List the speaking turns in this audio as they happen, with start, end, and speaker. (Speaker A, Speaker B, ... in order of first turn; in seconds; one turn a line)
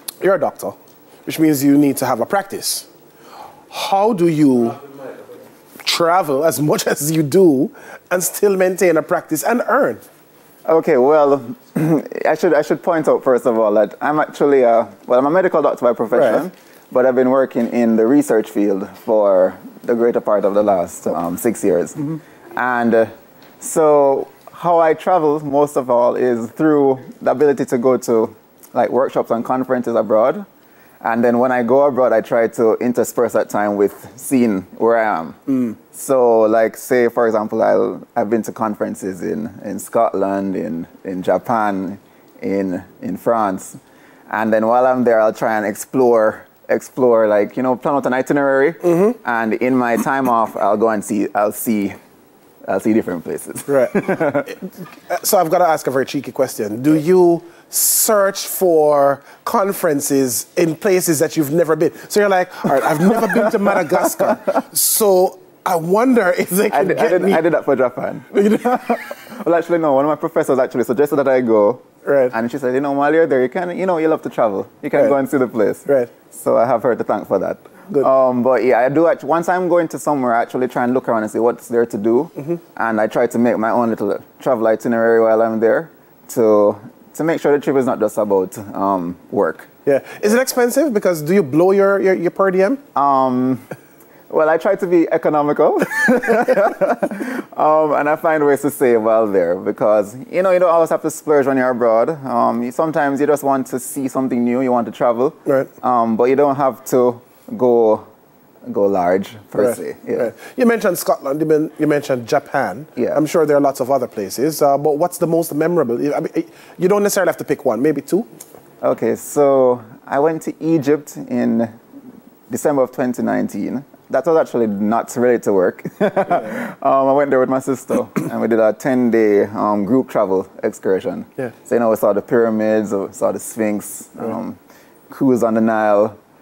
Speaker A: 0.2-2.9
Speaker A: 3.7-4.8
Speaker A: 5.8-10.0
Speaker B: 10.7-30.4
Speaker A: 16.1-16.4
Speaker B: 31.0-52.0
Speaker A: 48.9-49.1
Speaker B: 52.6-54.5
Speaker A: 53.7-67.4
Speaker B: 62.9-64.2
Speaker B: 66.7-89.7
Speaker A: 72.0-72.3
Speaker A: 89.8-92.8
Speaker B: 92.9-93.6
Speaker B: 94.3-108.0
Speaker B: 108.7-110.3
Speaker A: 109.6-118.3
Speaker B: 118.8-121.7
Speaker B: 122.5-134.6
Speaker B: 135.1-136.2